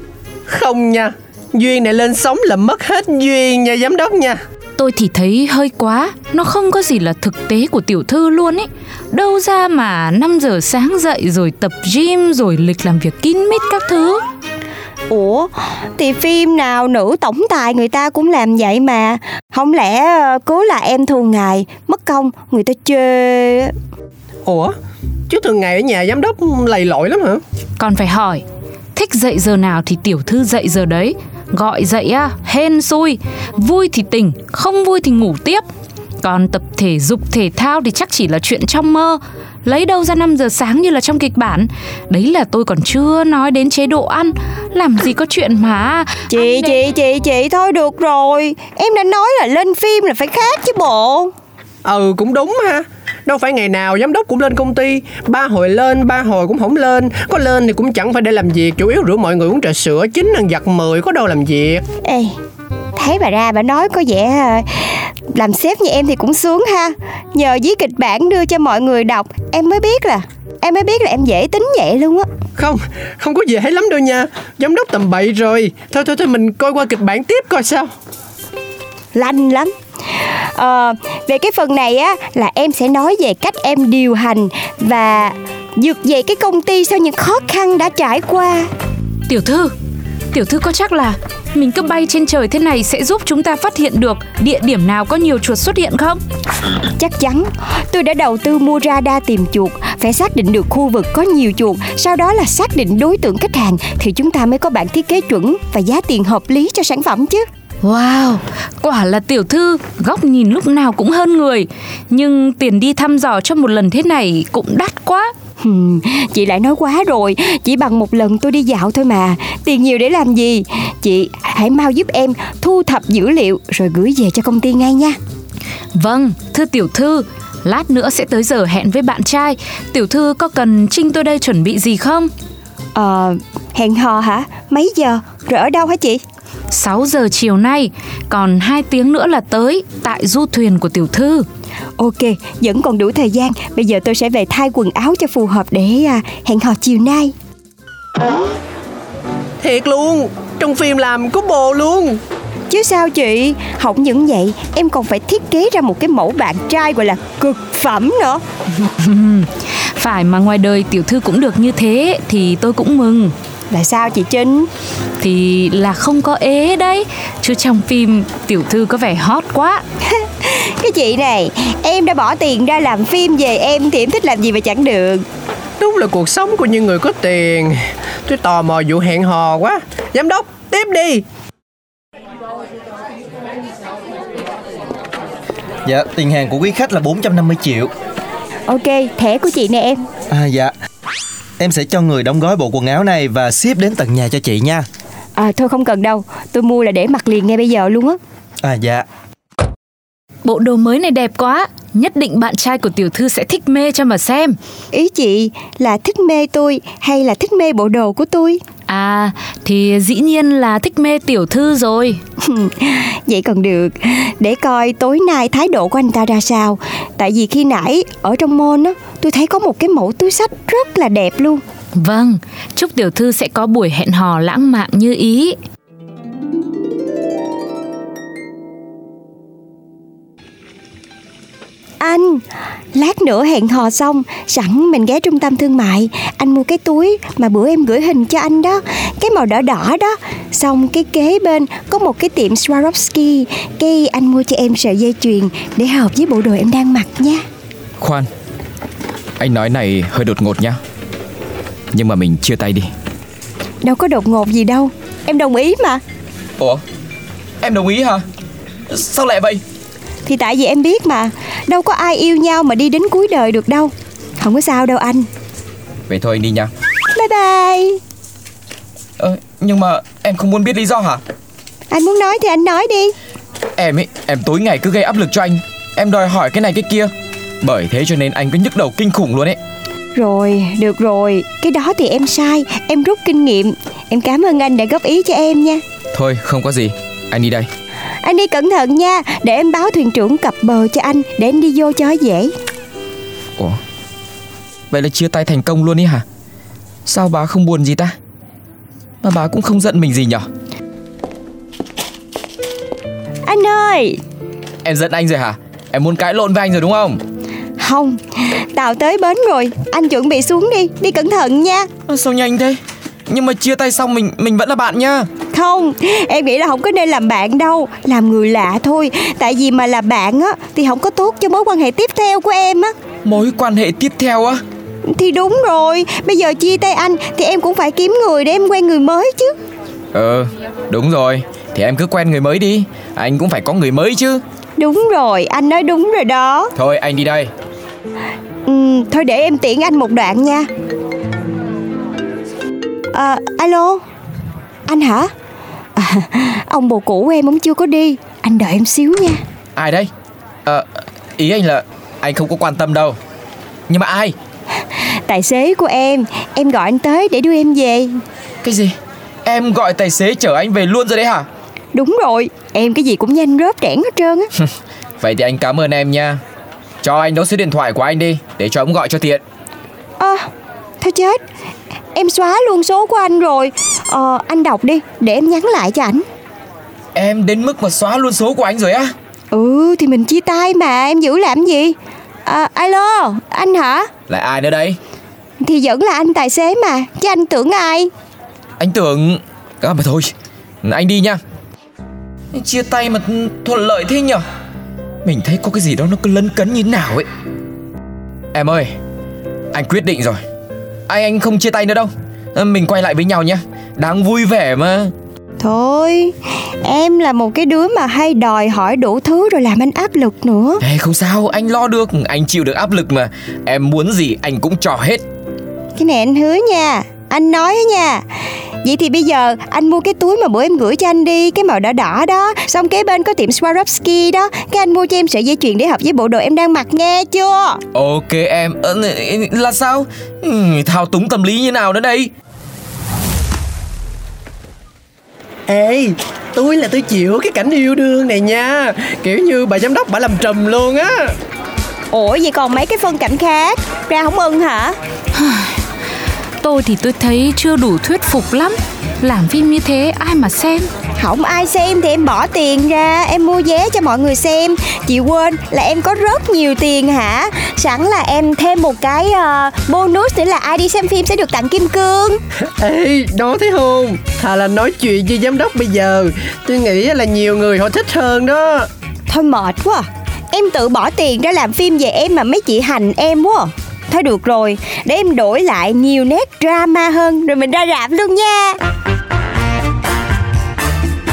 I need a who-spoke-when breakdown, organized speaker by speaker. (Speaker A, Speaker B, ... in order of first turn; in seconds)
Speaker A: 0.5-4.4, 24.4-24.7, 25.3-27.4, 51.8-61.9, 72.6-77.9, 149.6-152.2, 175.8-181.2, 435.7-441.3, 462.8-468.9
Speaker B: 4.8-14.2, 27.8-28.4, 28.9-35.6, 36.2-46.7, 89.3-89.7, 90.3-96.2, 107.8-115.3, 125.9-132.3, 136.7-141.4, 158.8-163.3, 165.2-169.8, 200.4-204.6, 208.9-212.2, 221.9-225.6, 445.3-445.8, 446.6-450.9
Speaker C: 15.1-23.7, 46.3-51.3, 62.0-62.3, 62.9-72.2, 79.1-88.7, 97.0-107.5, 115.6-125.2, 132.9-136.2, 142.0-147.3, 152.7-158.4, 163.7-164.7, 170.1-175.2, 188.7-190.0, 195.3-198.2, 204.9-208.6, 212.4-221.6, 232.0-232.4, 232.9-247.4, 253.8-256.0, 260.2-265.3, 267.1-268.0, 271.9-273.1, 280.1-285.8, 288.2-292.5, 303.4-304.2, 307.8-311.9, 315.5-322.9, 325.1-329.5, 334.8-336.7, 338.6-340.7, 343.1-344.0, 344.9-345.3, 345.9-349.4, 355.0-358.2, 361.9-364.5, 370.2-370.5, 371.0-371.4, 372.1-376.2, 379.5-381.9, 382.4-384.1, 385.6-388.1, 405.6-410.8, 415.9-418.2, 418.8-427.8, 442.1-444.9, 451.2-462.4, 469.3-478.8
Speaker D: 185.8-187.9, 190.3-190.7, 191.6-194.9, 198.6-199.1
Speaker E: 248.0-248.3, 249.4-250.8, 251.9-252.9, 257.6-258.2, 258.9-259.6, 266.1-266.7, 269.2-271.2, 273.8-279.6, 286.1-287.7, 294.9-296.2, 297.1-298.1, 299.2-300.5, 304.8-307.2, 312.1-315.3, 323.2-324.6, 330.1-334.4, 336.7-337.5, 349.7-350.1, 351.4-353.2, 353.9-354.3, 358.6-361.5, 365.2-366.4, 367.0-369.4, 377.1-379.1, 384.3-385.0, 388.8-390.3, 390.8-391.4, 392.5-394.4, 395.2-397.3, 398.5-398.9, 399.7-400.4, 401.1-405.1, 410.8-415.2, 427.9-432.3